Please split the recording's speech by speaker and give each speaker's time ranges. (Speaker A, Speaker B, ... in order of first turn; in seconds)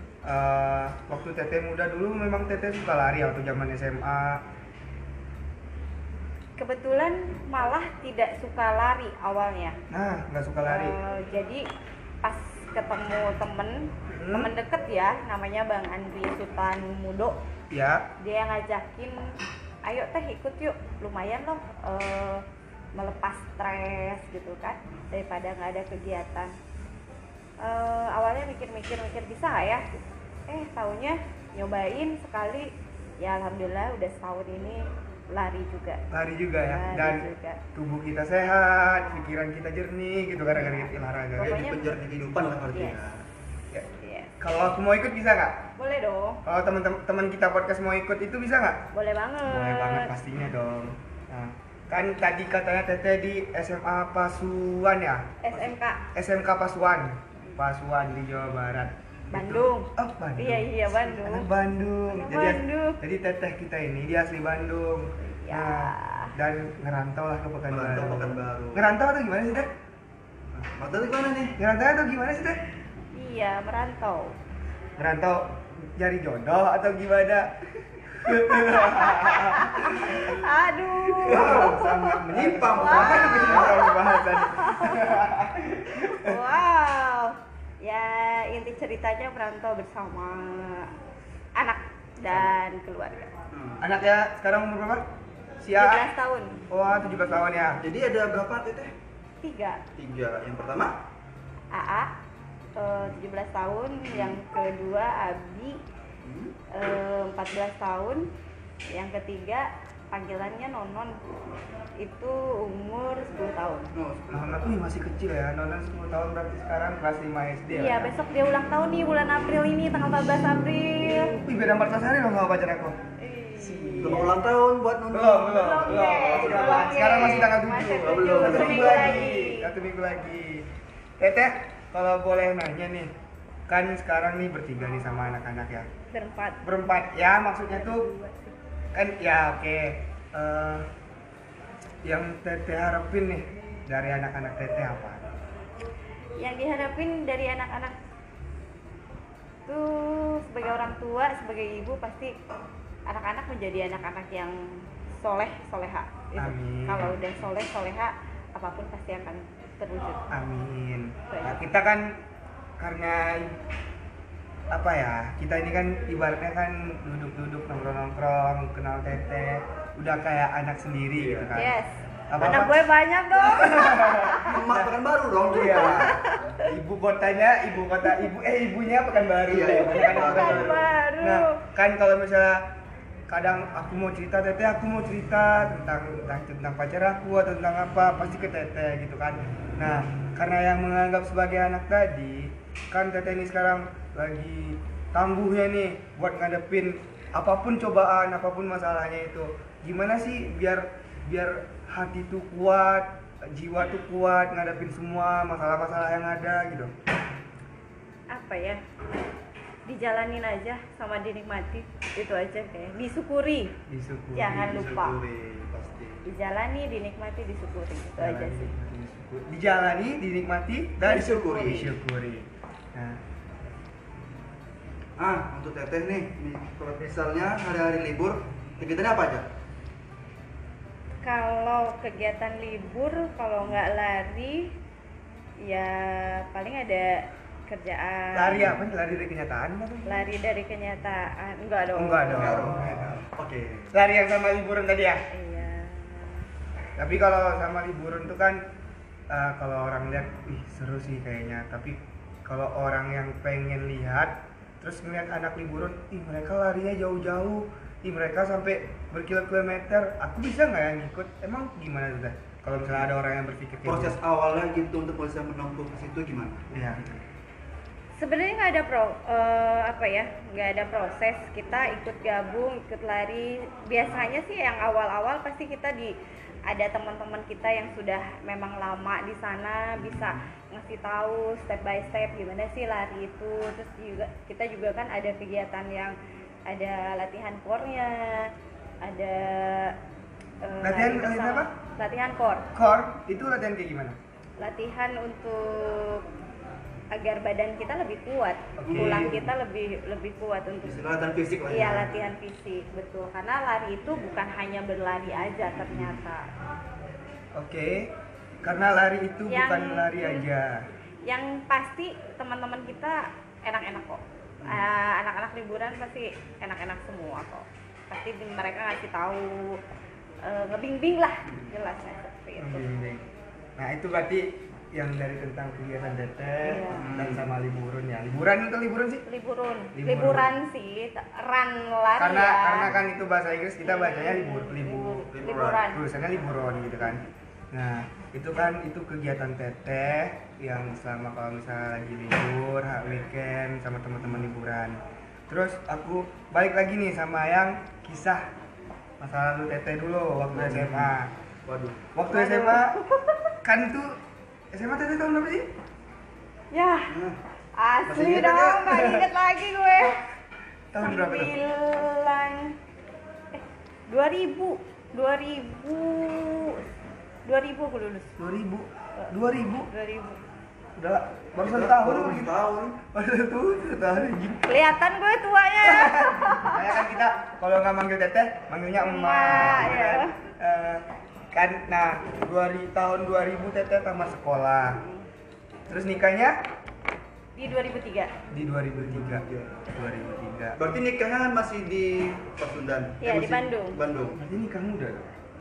Speaker A: 0.2-4.4, 9.9-11.0, 14.1-14.5, 17.7-18.1, 36.1-41.7, 44.4-45.6, 46.5-48.9, 49.4-55.4, 56.1-69.7, 71.6-72.6, 75.0-77.5, 78.0-80.5, 81.0-86.4, 93.8-95.0, 95.6-96.1, 96.7-97.8, 114.3-118.1, 121.1-123.0, 123.6-124.3, 125.1-133.1, 133.7-135.9, 136.6-138.1, 138.9-140.9, 142.1-145.3, 156.4-157.2, 160.3-162.2, 162.8-163.5, 164.7-171.8, 172.3-172.8, 173.3-174.9, 175.5-182.7, 183.3-206.9, 213.9-214.6, 218.2-223.2, 238.3-240.2, 241.9-243.2, 243.9-245.2, 247.0-248.7, 249.3-264.2, 266.7-267.1, 290.8-291.7, 292.8-294.2, 298.8-299.5, 307.6-308.1, 308.6-310.8, 322.6-323.3, 323.8-329.2, 329.9-330.6, 332.2-348.5, 349.2-351.3, 352.1-353.0, 353.6-354.2, 354.7-355.7, 359.0-359.3, 360.9-361.5, 368.4-369.9, 371.0-372.6, 373.1-374.8, 375.8-385.0, 385.9-386.6, 388.5-390.8, 394.4-395.3
Speaker B: 6.6-9.8, 10.6-11.7, 12.2-17.4, 18.2-26.5, 27.6-29.9, 30.5-36.0, 36.6-37.6, 40.6-41.9, 44.0-44.3, 45.8-46.4, 48.9-50.1, 55.4-56.0, 59.3-61.5, 62.1-63.0, 65.2-66.3, 73.1-74.3, 78.5-85.2, 85.9-90.9, 91.5-93.3, 95.8-96.6, 99.4-99.8, 101.7-102.1, 102.8-105.8, 106.7-108.3, 108.9-111.2, 112.0-113.9, 117.7-121.3, 123.2-124.3, 125.5-129.7, 136.1-136.6, 137.7-138.5, 146.4-148.0, 149.7-152.3, 153.1-160.2, 161.3-161.6, 171.6-174.5, 175.6-176.7, 179.8-181.6, 208.3-208.8, 209.9-213.8, 214.3-215.2, 216.2-218.7, 221.1-221.8, 231.2-234.7, 235.6-238.6, 240.1-242.7, 245.3-246.5, 268.2-276.1, 276.7-290.0, 290.6-292.7, 294.6-296.2, 297.1-301.1, 301.7-306.5, 309.5-310.5, 311.3-319.8, 320.4-322.9, 326.6-327.1, 329.3-332.9, 333.8-336.0, 352.3-353.6, 356.7-357.1, 357.8-360.2, 361.0-362.8, 363.5-366.9, 367.4-368.3, 369.9-370.4, 374.6-376.8, 379.0-380.3, 387.6-388.3, 393.2-394.0
Speaker C: 41.4-43.2, 67.7-68.9, 70.5-71.6, 81.3-83.8, 93.5-93.9, 97.8-98.9, 100.0-101.0, 106.2-106.5, 114.0-114.8, 124.0-127.0, 127.8-129.3, 171.2-171.6, 172.4-172.6, 174.3-176.2, 179.5-180.9, 214.5-216.2, 221.1-221.9, 225.2-229.5, 238.5-238.8, 242.3-243.9, 263.9-267.0, 280.1-280.4, 298.9-299.3, 300.8-302.2, 326.9-327.5, 335.3-335.8, 350.5-351.2, 351.7-352.0, 357.1-357.4, 358.1-359.0, 371.6-373.0, 389.0-389.7, 390.8-394.4